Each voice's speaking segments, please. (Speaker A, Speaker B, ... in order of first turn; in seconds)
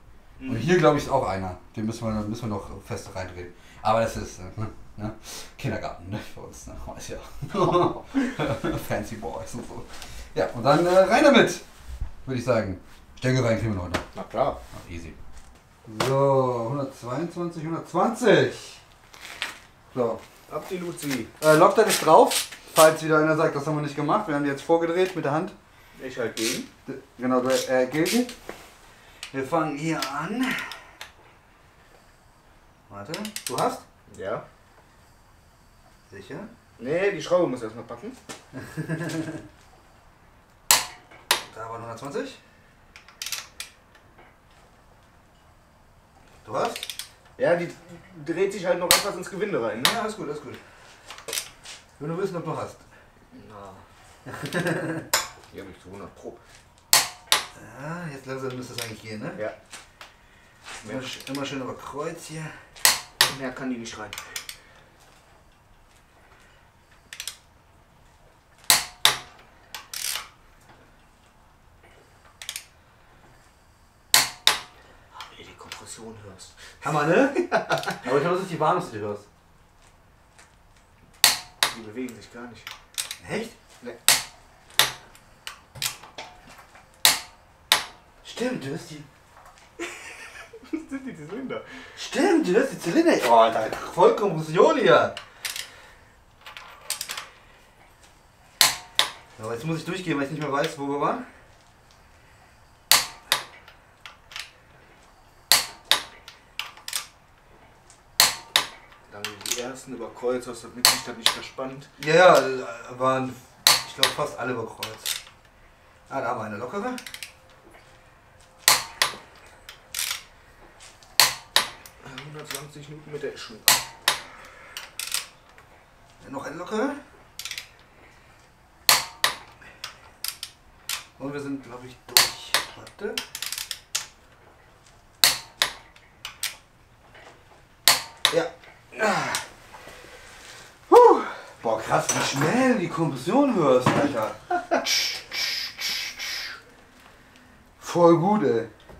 Speaker A: 0.4-0.7, 14.1-14.6, 20.5-21.3, 26.0-26.7, 34.1-34.4, 36.8-38.2, 47.4-50.0, 53.3-53.8, 55.5-56.4, 60.8-61.1, 63.2-64.2, 75.1-77.9, 81.7-82.7, 90.6-91.6, 109.1-111.9, 122.0-123.8
Speaker B: 0.5-11.6, 12.2-14.0, 14.7-15.2, 15.8-18.8, 19.9-20.2, 21.4-25.5, 26.9-28.3, 29.3-30.7, 32.9-33.8, 36.1-36.5, 38.5-39.4, 41.4-42.4, 46.4-46.9, 49.9-50.6, 52.0-52.8, 54.2-55.1, 57.5-59.4, 60.8-62.5, 76.8-79.2, 83.2-83.5, 88.2-89.0, 92.0-95.2, 99.4-101.2, 112.0-115.1, 116.1-117.0, 126.2-127.0, 131.2-133.2, 138.3-139.4, 140.9-146.1, 147.8-148.7